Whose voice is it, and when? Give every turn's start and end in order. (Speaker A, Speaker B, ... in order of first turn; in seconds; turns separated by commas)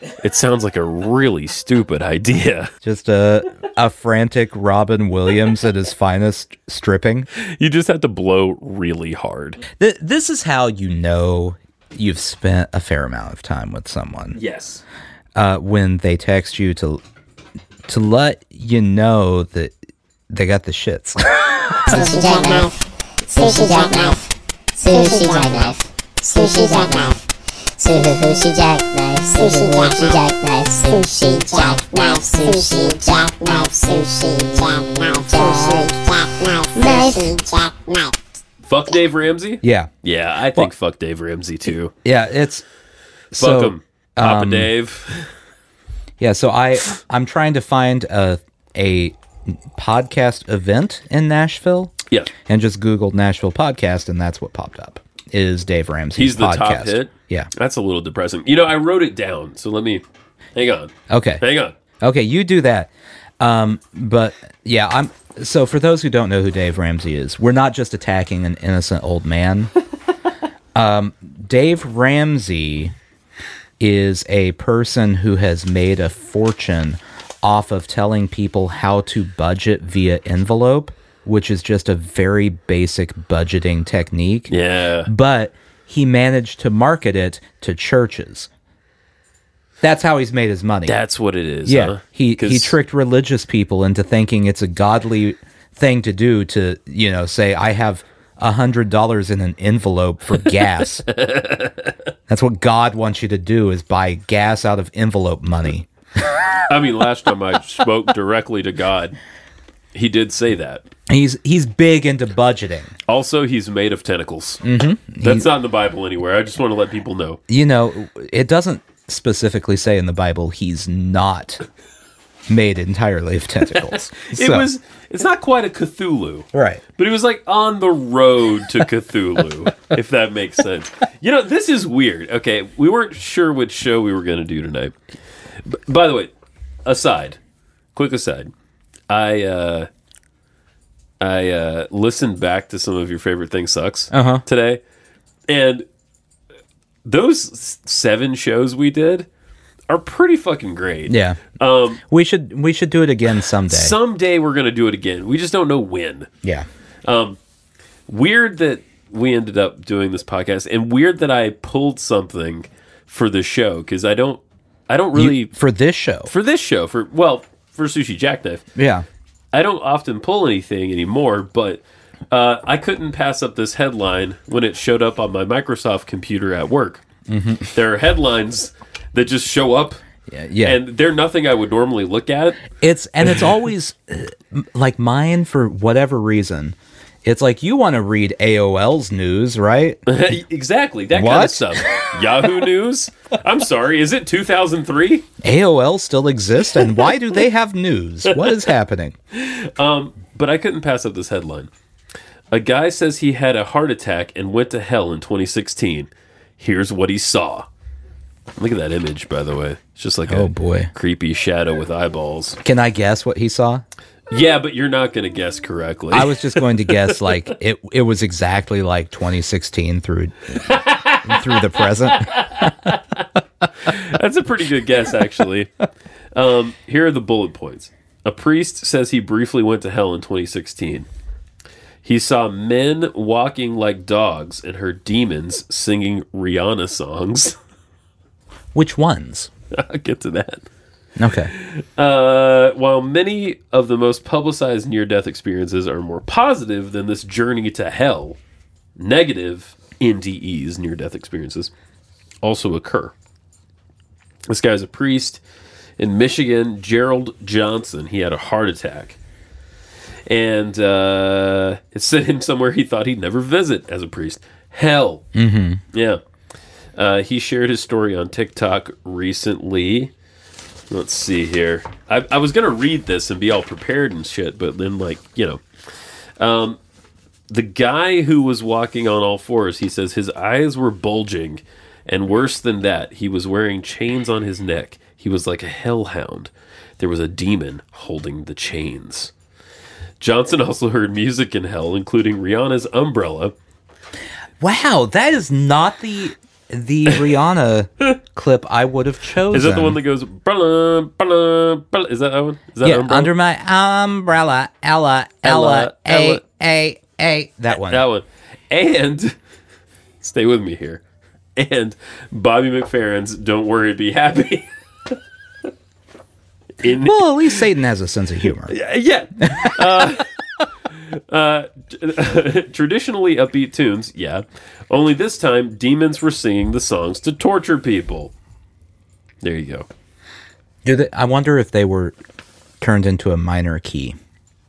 Speaker A: 0.2-2.7, Speaker B: 2.8-7.3, Speaker A: 7.4-9.6, Speaker B: 9.7-14.4, Speaker A: 14.3-14.8, Speaker B: 15.3-17.0, Speaker B: 17.9-19.7, Speaker B: 20.3-22.0, Speaker C: 21.9-27.2, Speaker C: 27.8-38.1, Speaker A: 38.6-41.9, Speaker B: 39.6-39.9, Speaker B: 42.0-42.6, Speaker B: 43.3-44.7, Speaker A: 43.3-45.3, Speaker B: 46.2-57.5, Speaker A: 56.1-60.0, Speaker A: 60.5-61.7, Speaker B: 61.1-61.4, Speaker B: 62.0-69.7, Speaker B: 70.7-72.9, Speaker B: 73.8-84.5, Speaker A: 84.5-85.1, Speaker B: 85.0-88.5, Speaker B: 89.8-91.0, Speaker A: 90.9-92.8, Speaker B: 91.6-101.0, Speaker A: 101.0-101.9, Speaker B: 102.3-105.9, Speaker A: 106.7-109.2, Speaker A: 109.9-110.8, Speaker B: 111.1-112.9, Speaker A: 113.1-114.6, Speaker B: 114.6-115.5, Speaker A: 115.2-117.4, Speaker B: 117.5-121.6, Speaker B: 122.5-124.7, Speaker A: 123.9-134.9, Speaker B: 126.5-126.8, Speaker A: 135.6-136.3, Speaker A: 136.8-137.4, Speaker A: 137.9-138.5, Speaker A: 139.1-139.9, Speaker A: 141.2-144.8, Speaker B: 144.1-144.4, Speaker A: 145.5-145.8, Speaker A: 147.0-149.3, Speaker A: 149.9-152.0, Speaker B: 151.1-151.4, Speaker B: 152.0-153.9, Speaker A: 153.7-156.3, Speaker A: 157.0-157.4, Speaker A: 158.1-165.5, Speaker B: 165.1-166.3, Speaker A: 166.3-168.7, Speaker B: 168.7-169.1, Speaker A: 169.5-177.0, Speaker B: 177.3-177.7, Speaker A: 177.7-180.0, Speaker B: 180.3-180.8, Speaker A: 180.6-182.7, Speaker B: 182.8-190.1, Speaker A: 190.1-195.2, Speaker B: 191.1-192.1, Speaker B: 195.4-199.2, Speaker A: 199.3-201.7, Speaker A: 202.5-207.7, Speaker A: 208.6-212.6, Speaker B: 210.3-210.9, Speaker B: 212.6-213.8, Speaker A: 214.3-217.3, Speaker B: 216.1-222.9, Speaker A: 220.7-223.3, Speaker A: 223.8-225.7, Speaker A: 226.3-231.1, Speaker A: 232.0-237.6, Speaker B: 238.7-239.5, Speaker A: 239.7-240.7, Speaker B: 241.2-241.5, Speaker A: 241.5-248.4, Speaker A: 248.9-251.7, Speaker A: 252.4-253.1, Speaker A: 254.5-255.4, Speaker A: 256.0-259.2, Speaker A: 260.3-265.2, Speaker B: 265.3-265.8, Speaker A: 265.9-266.2, Speaker A: 266.9-270.1, Speaker A: 270.9-275.6, Speaker A: 276.4-276.8, Speaker A: 277.5-289.3, Speaker A: 290.2-293.5, Speaker B: 294.6-300.0, Speaker A: 299.5-303.3, Speaker B: 302.8-308.0, Speaker A: 305.4-306.4, Speaker A: 307.7-309.3, Speaker A: 310.2-311.0, Speaker A: 311.6-315.1, Speaker A: 316.8-317.6, Speaker B: 317.0-318.7, Speaker A: 318.7-320.3, Speaker B: 319.4-320.2, Speaker A: 320.9-328.3, Speaker A: 329.4-329.9, Speaker B: 330.8-332.1, Speaker B: 332.8-334.1